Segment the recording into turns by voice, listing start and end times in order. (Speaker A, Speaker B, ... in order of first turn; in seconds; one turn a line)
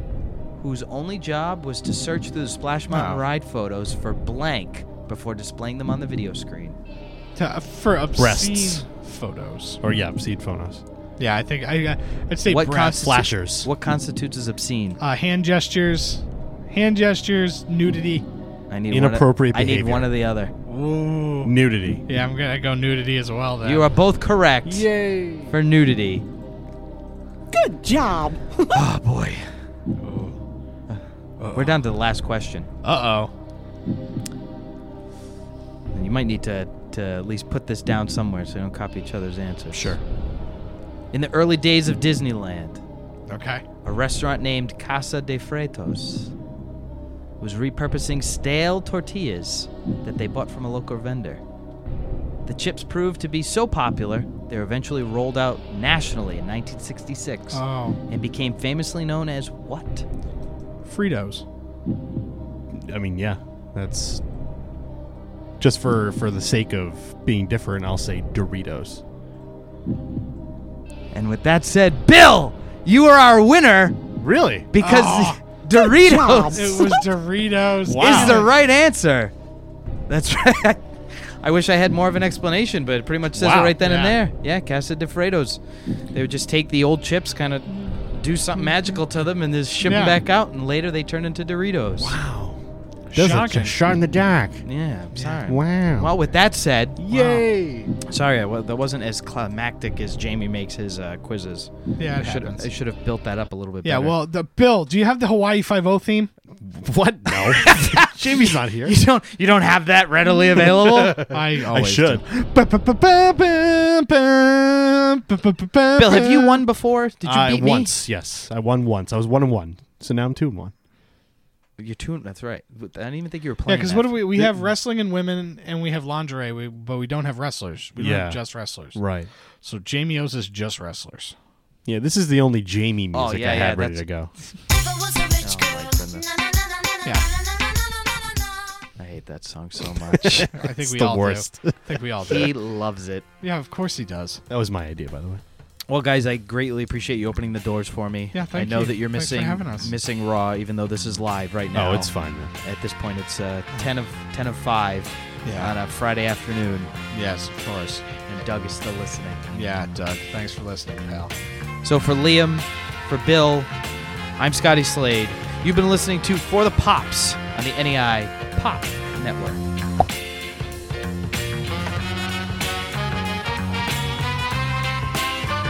Speaker A: 0.6-6.8
Speaker B: 2.9-3.2
Speaker B: 7.3-9.8
Speaker C: 8.2-8.9
Speaker C: 9.8-10.8
Speaker B: 11.2-13.3
Speaker A: 12.5-15.0
Speaker C: 12.9-13.7
Speaker B: 15.0-18.2
Speaker A: 18.7-20.5
Speaker C: 18.9-20.2
Speaker B: 20.7-21.5
Speaker C: 21.4-22.0
Speaker B: 22.1-23.9
Speaker A: 23.6-24.9
Speaker B: 24.7-25.5
Speaker A: 25.5-26.2
Speaker D: 27.5-28.8
Speaker A: 28.7-29.4
Speaker B: 30.0-30.4
Speaker A: 30.9-32.7
Speaker B: 31.4-31.8
Speaker B: 32.8-33.3
Speaker A: 35.9-39.8
Speaker A: 41.1-42.8
Speaker B: 43.3-43.6
Speaker A: 43.8-46.3
Speaker A: 47.4-51.4
Speaker A: 52.5-60.1
Speaker B: 57.5-58.0
Speaker B: 60.8-61.4
Speaker C: 62.7-64.2
Speaker C: 65.6-69.0
Speaker A: 71.1-74.0
Speaker C: 74.2-74.7
Speaker A: 74.7-76.9
Speaker B: 74.8-75.4
Speaker D: 76.1-76.8
Speaker B: 76.5-78.5
Speaker C: 77.9-78.5
Speaker A: 78.0-79.3
Speaker A: 80.1-80.8
Speaker A: 81.4-85.6
Speaker C: 83.4-83.8
Speaker B: 83.7-84.2
Speaker A: 86.1-92.2
Speaker B: 89.8-90.2
Speaker C: 92.0-94.6
Speaker B: 93.1-93.8
Speaker A: 94.6-97.0
Speaker C: 95.4-96.1
Speaker C: 97.0-97.9
Speaker B: 97.1-97.9
Speaker A: 98.0-104.2
Speaker B: 102.0-102.7
Speaker B: 103.8-106.3
Speaker C: 106.6-109.0
Speaker A: 107.6-111.3
Speaker C: 110.6-112.2
Speaker B: 111.3-116.6
Speaker A: 116.0-117.9
Speaker C: 117.2-120.7
Speaker A: 121.8-124.2
Speaker B: 123.7-129.0
Speaker C: 128.0-129.3
Speaker B: 129.6-131.4
Speaker C: 131.9-134.3
Speaker A: 133.1-134.1
Speaker A: 135.4-136.3
Speaker A: 139.0-140.5
Speaker C: 140.4-142.5
Speaker B: 140.5-142.5
Speaker A: 142.3-143.3
Speaker B: 143.4-144.4
Speaker C: 144.5-145.4
Speaker A: 145.9-156.9
Speaker B: 148.3-149.9
Speaker C: 151.7-152.5
Speaker B: 155.4-155.8
Speaker B: 157.1-158.1
Speaker A: 158.2-159.5
Speaker B: 159.5-161.3
Speaker A: 161.8-163.7
Speaker A: 164.4-169.6